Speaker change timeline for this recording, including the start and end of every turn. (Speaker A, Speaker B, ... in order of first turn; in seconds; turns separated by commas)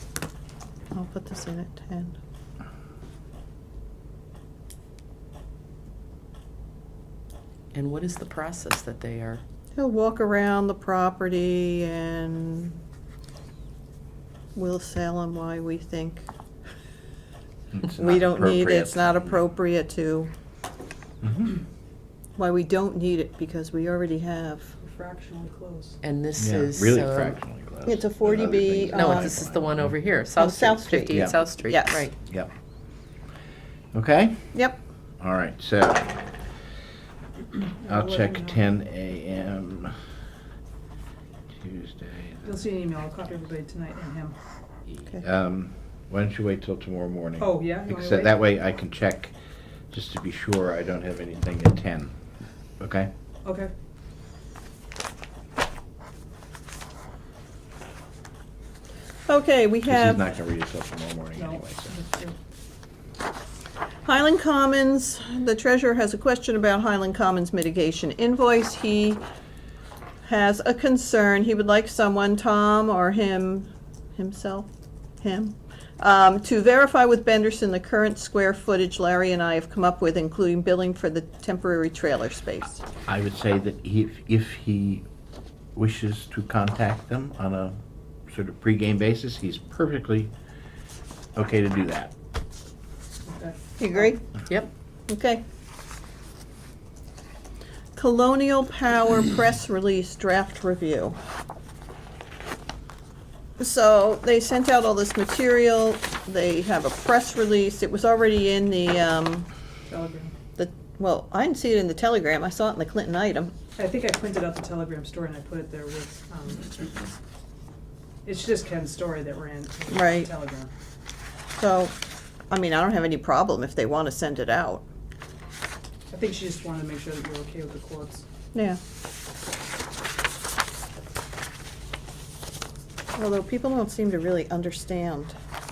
Speaker A: 0.9-2.1, Speaker B: 7.7-9.4, Speaker A: 9.7-12.8, Speaker A: 14.5-16.2, Speaker C: 17.7-19.4, Speaker A: 17.9-20.3, Speaker C: 21.2-21.6, Speaker A: 22.4-24.7, Speaker D: 24.8-26.0, Speaker B: 26.0-27.4, Speaker C: 26.4-30.1, Speaker A: 27.9-29.4, Speaker B: 28.9-32.1, Speaker A: 30.4-32.1, Speaker C: 31.1-31.4, Speaker C: 32.2-32.5, Speaker C: 33.9-34.5, Speaker C: 35.2-36.2, Speaker D: 37.6-38.6, Speaker C: 37.9-39.9, Speaker C: 41.6-42.4, Speaker D: 42.4-44.4, Speaker C: 45.0-49.3, Speaker D: 47.4-48.3, Speaker C: 49.9-52.1, Speaker C: 52.8-53.1, Speaker D: 53.4-53.7, Speaker A: 59.3-60.3, Speaker C: 59.9-61.9, Speaker D: 61.4-62.4, Speaker A: 64.0-69.2, Speaker A: 70.2-74.7, Speaker A: 75.2-82.8, Speaker C: 83.1-85.0, Speaker C: 85.7-90.3, Speaker C: 91.3-92.1, Speaker D: 93.2-94.1, Speaker A: 93.8-94.2, Speaker A: 95.1-95.4, Speaker A: 97.9-101.2, Speaker A: 103.6-109.5, Speaker D: 109.9-110.3, Speaker A: 110.6-113.5, Speaker D: 113.8-117.2, Speaker D: 118.2-120.7, Speaker A: 119.9-120.3, Speaker A: 121.5-121.9, Speaker A: 122.5-124.8, Speaker D: 126.1-128.2, Speaker A: 128.5-128.8, Speaker A: 133.2-135.3